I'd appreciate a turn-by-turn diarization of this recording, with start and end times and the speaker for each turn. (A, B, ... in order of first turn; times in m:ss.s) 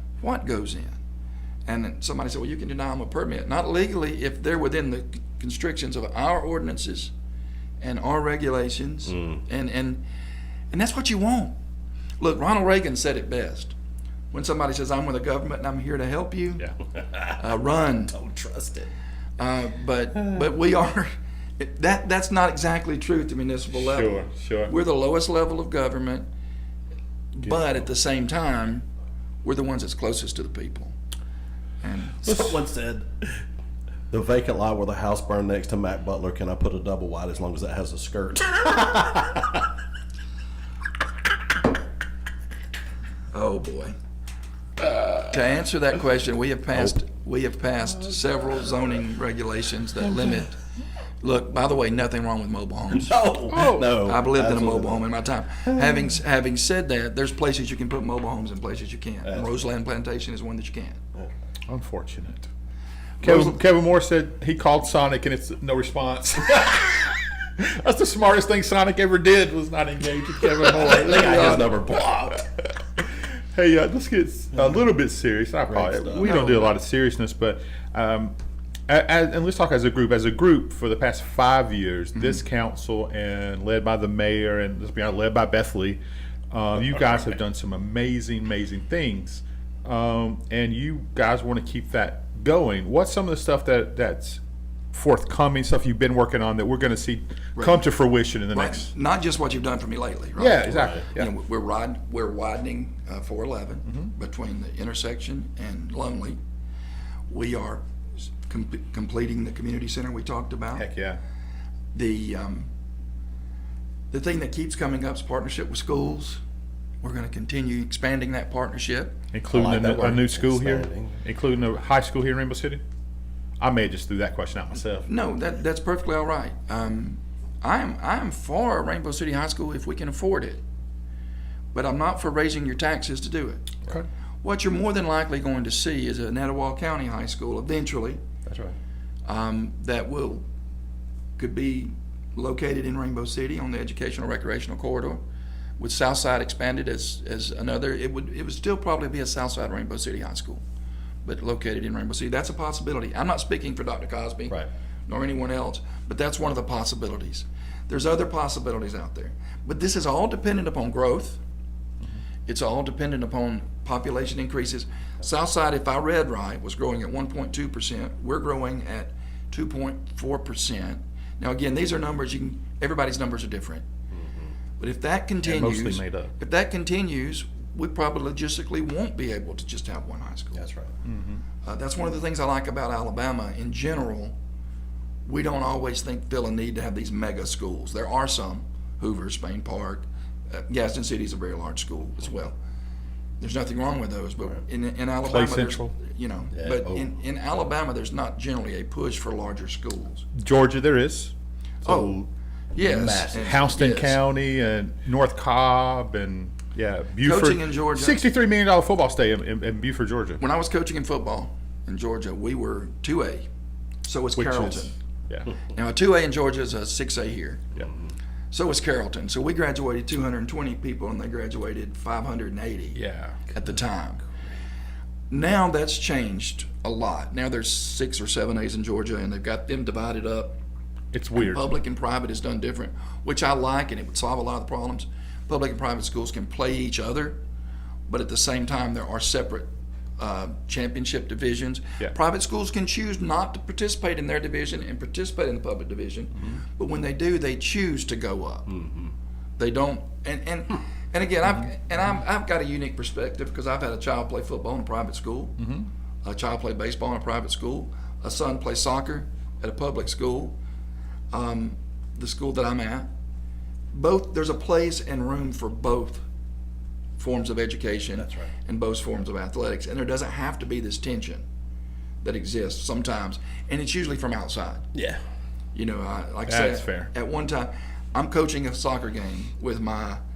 0:00.2-0:01.0 A
0:01.7-0:07.1 A
0:07.8-0:10.0 A
0:10.7-0:11.6 A
0:12.2-0:13.8 A
0:14.3-0:16.7 A
0:17.2-0:18.1 A
0:18.1-0:18.9 B
0:19.4-0:26.3 A
0:23.7-0:24.7 C
0:27.4-0:28.8 A
0:29.4-0:31.0 A
0:31.8-0:32.6 A
0:32.2-0:33.4 B
0:34.1-0:39.6 B
0:43.3-0:44.0 A
0:45.1-0:50.6 A
0:51.2-0:53.2 A
0:52.9-0:55.0 B
0:53.5-0:54.0 C
0:53.8-1:01.0 A
1:01.7-1:02.5 C
1:03.2-1:18.3 C
1:03.2-1:03.5 A
1:10.6-1:12.4 B
1:11.1-1:11.6 A
1:15.7-1:16.8 B
1:18.9-1:26.0 C
1:26.5-1:34.4 C
1:34.9-1:38.9 C
1:37.6-1:37.8 A
1:38.5-1:46.4 A
1:40.4-1:41.3 C
1:40.7-1:41.0 B
1:47.3-1:47.8 A
1:48.4-1:50.9 A
1:50.8-1:51.2 C
1:51.9-1:52.7 A
1:54.1-1:56.4 A
1:57.0-1:59.2 A
1:59.3-2:02.8 C
1:59.5-2:01.2 B
2:03.6-2:05.1 C
2:05.1-2:10.6 A
2:11.7-2:13.8 A
2:14.4-2:18.2 A
2:18.5-2:18.8 B
2:19.3-2:20.4 A
2:21.4-2:25.2 A
2:25.8-2:30.6 A
2:31.2-2:41.4 A
2:42.5-2:53.9 A
2:54.1-2:54.5 B
2:54.8-3:00.6 A
2:55.4-2:56.4 C
3:00.5-3:00.9 B
3:01.0-3:01.4 C
3:01.6-3:04.4 A
3:05.3-3:12.6 A
3:13.4-3:20.3 A
3:15.2-3:16.0 C
3:16.5-3:17.1 B
3:20.4-3:21.3 C
3:21.8-3:22.2 A
3:21.8-3:22.3 C
3:22.8-3:24.2 A
3:22.8-3:23.5 B
3:23.3-3:30.4 C
3:27.2-3:28.2 A
3:30.4-3:33.5 A
3:34.0-3:35.0 A
3:34.4-3:35.5 C
3:35.7-3:37.8 A
3:38.5-3:43.0 A
3:43.0-3:43.5 C
3:43.5-3:44.2 A
3:45.3-3:50.6 A
3:51.1-3:51.7 C
3:51.3-3:57.4 A
3:58.1-4:08.8 A
4:09.6-4:15.6 A
4:15.6-4:15.9 C
4:16.2-4:20.6 A
4:21.3-4:23.1 A
4:23.9-4:26.3 A
4:27.2-4:31.4 A
4:28.2-4:28.5 B
4:32.2-4:34.9 A
4:34.9-4:35.2 B
4:35.7-4:40.2 A
4:36.5-4:37.1 C